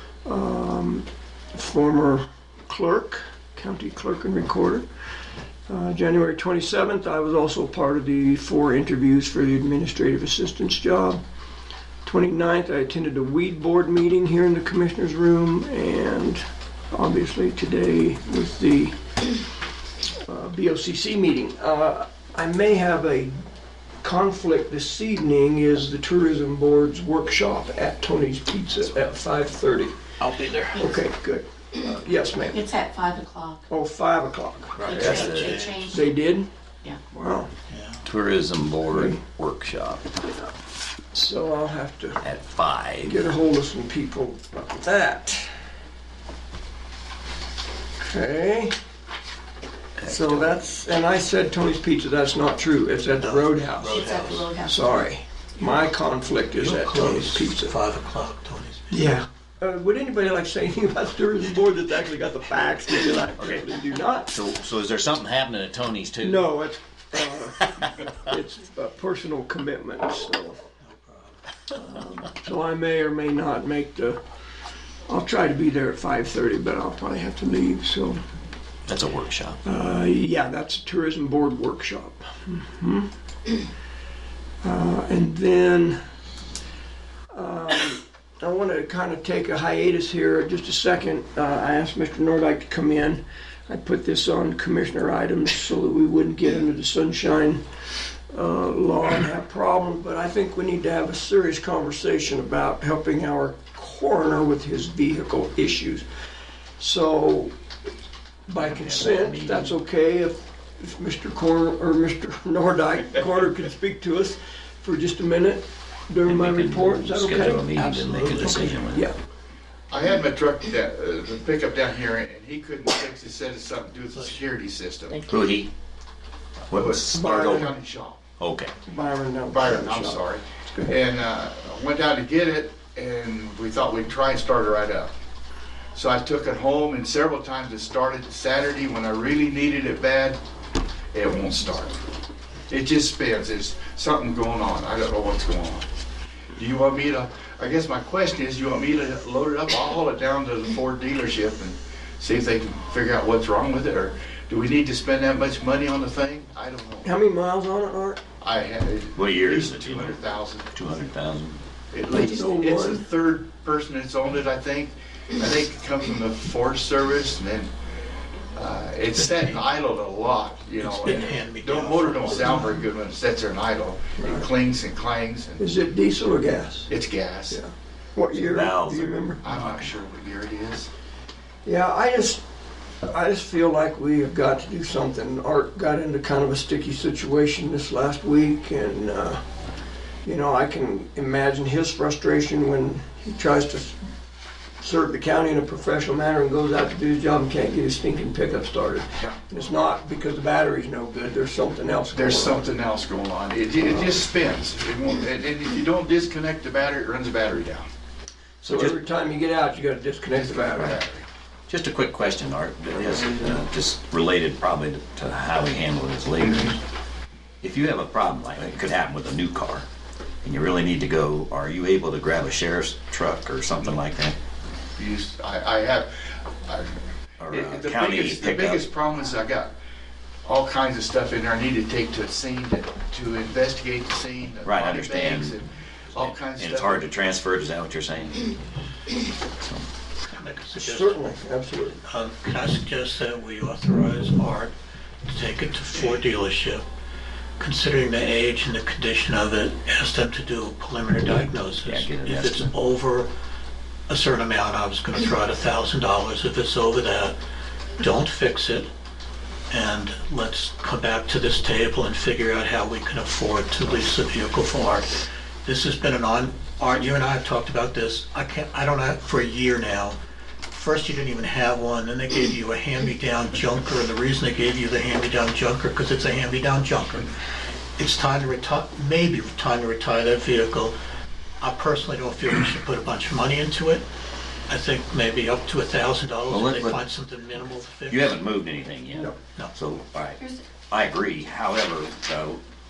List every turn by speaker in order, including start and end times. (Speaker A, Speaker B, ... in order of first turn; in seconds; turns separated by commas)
Speaker A: 0.2-4.8, Speaker A: 5.7-11.2, Speaker A: 12.0-19.0, Speaker A: 20.2-23.4, Speaker A: 24.0-30.1, Speaker A: 30.7-32.6, Speaker B: 32.5-33.6, Speaker A: 33.7-36.5, Speaker C: 34.8-35.7, Speaker B: 34.8-36.1, Speaker D: 34.9-35.8, Speaker A: 37.0-37.5, Speaker D: 37.7-38.0, Speaker C: 38.0-40.1, Speaker A: 38.9-39.2, Speaker A: 40.2-40.5, Speaker A: 41.1-42.2, Speaker C: 42.2-43.3, Speaker A: 43.0-45.5, Speaker A: 48.0-48.7, Speaker C: 50.0-50.6, Speaker A: 50.0-57.7, Speaker D: 53.2-54.5, Speaker B: 53.9-55.0, Speaker D: 56.6-59.1, Speaker A: 58.9-64.3, Speaker C: 63.4-63.7, Speaker C: 64.2-66.5, Speaker A: 66.2-70.6, Speaker C: 67.3-67.8, Speaker D: 70.9-71.3, Speaker A: 71.7-74.2, Speaker A: 75.1-78.2, Speaker C: 78.9-79.6, Speaker A: 79.6-83.1, Speaker A: 84.6-86.0, Speaker A: 87.3-97.6, Speaker A: 98.3-106.0, Speaker A: 106.8-107.5, Speaker A: 108.5-119.2, Speaker C: 108.5-109.7, Speaker C: 116.2-119.1, Speaker D: 117.8-118.7, Speaker E: 119.9-125.2, Speaker C: 125.3-125.7, Speaker C: 126.7-127.7, Speaker E: 126.7-128.2, Speaker A: 127.1-127.7, Speaker C: 128.4-128.7, Speaker A: 128.8-130.9, Speaker E: 129.5-135.1, Speaker E: 135.9-140.4, Speaker E: 141.1-142.0, Speaker E: 142.7-145.9, Speaker E: 146.5-157.1, Speaker A: 157.0-158.2, Speaker E: 158.4-160.7, Speaker C: 159.1-160.2, Speaker C: 160.7-161.6, Speaker E: 161.9-167.7, Speaker A: 162.1-163.1, Speaker E: 168.5-175.6, Speaker D: 170.8-172.8, Speaker A: 174.2-174.5, Speaker A: 175.6-176.9, Speaker E: 176.9-177.6, Speaker A: 177.5-179.5, Speaker C: 178.3-179.2, Speaker E: 179.4-180.9, Speaker A: 181.6-182.4, Speaker A: 183.0-189.4, Speaker A: 190.2-194.0, Speaker A: 194.8-202.7, Speaker E: 202.1-207.9, Speaker A: 208.6-211.0, Speaker E: 210.6-211.2, Speaker C: 211.7-216.8, Speaker C: 217.6-219.8, Speaker C: 220.4-224.3, Speaker E: 225.0-226.9, Speaker C: 227.4-228.8, Speaker E: 227.5-229.7, Speaker E: 230.4-237.1, Speaker C: 234.6-235.6, Speaker C: 236.1-238.5, Speaker D: 240.3-241.2, Speaker A: 240.8-242.0, Speaker D: 242.0-244.7, Speaker D: 245.3-246.8, Speaker D: 247.6-253.3, Speaker C: 251.8-252.7, Speaker D: 254.1-257.4, Speaker D: 258.0-258.9, Speaker D: 259.7-265.1, Speaker D: 265.6-270.2, Speaker D: 270.7-277.3, Speaker D: 278.0-280.9, Speaker D: 281.6-284.0, Speaker D: 284.7-288.4, Speaker C: 286.5-287.0, Speaker C: 288.1-292.6, Speaker D: 289.4-289.7